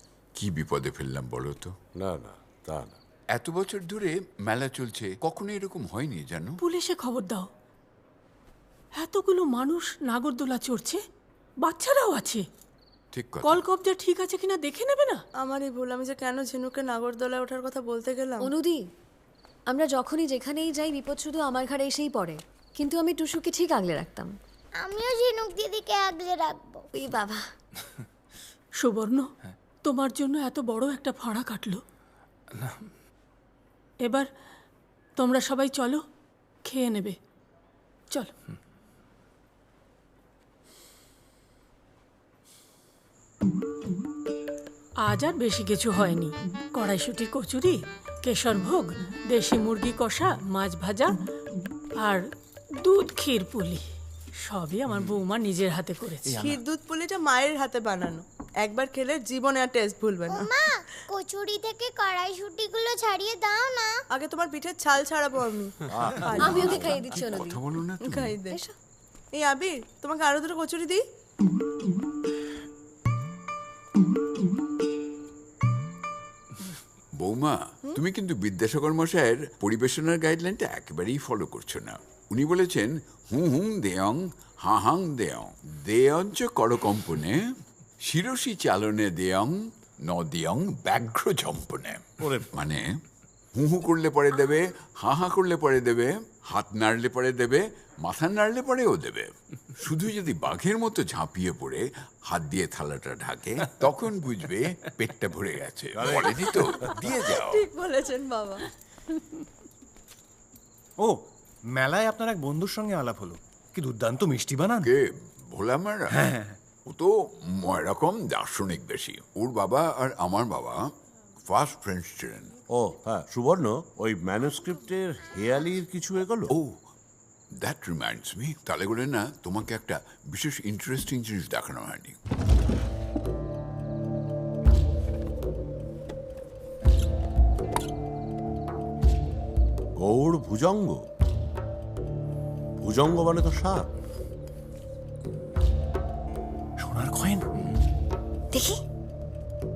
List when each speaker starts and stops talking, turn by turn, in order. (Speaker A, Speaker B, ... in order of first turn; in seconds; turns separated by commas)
Speaker A: 0.3-1.7, Speaker B: 1.9-3.0, Speaker A: 3.3-6.6, Speaker C: 6.6-7.5, Speaker C: 8.9-11.0, Speaker C: 11.6-12.4, Speaker A: 13.1-13.6, Speaker C: 13.4-15.2, Speaker D: 15.4-18.5, Speaker E: 18.4-18.9, Speaker E: 19.7-24.3, Speaker F: 24.8-27.1, Speaker E: 27.0-27.4, Speaker C: 28.8-29.3, Speaker C: 29.8-31.8, Speaker C: 34.0-34.2, Speaker C: 35.1-36.0, Speaker C: 36.6-37.2, Speaker C: 45.0-51.1, Speaker C: 52.0-52.2, Speaker C: 52.8-53.9, Speaker C: 54.4-56.4, Speaker D: 56.3-60.6, Speaker F: 60.2-64.0, Speaker D: 64.1-67.1, Speaker B: 65.9-66.8, Speaker E: 66.4-67.6, Speaker A: 66.6-68.4, Speaker D: 67.9-68.6, Speaker D: 69.3-71.0, Speaker A: 77.2-87.4, Speaker A: 88.0-92.9, Speaker B: 92.2-92.5, Speaker A: 93.5-107.6, Speaker B: 105.9-107.0, Speaker D: 107.2-108.6, Speaker G: 111.0-114.9, Speaker A: 114.8-116.2, Speaker G: 116.1-116.5, Speaker A: 116.8-120.8, Speaker A: 121.4-122.6, Speaker B: 122.7-126.5, Speaker A: 127.6-132.2, Speaker B: 140.0-141.0, Speaker B: 142.8-143.9, Speaker G: 146.8-147.5, Speaker E: 148.5-148.8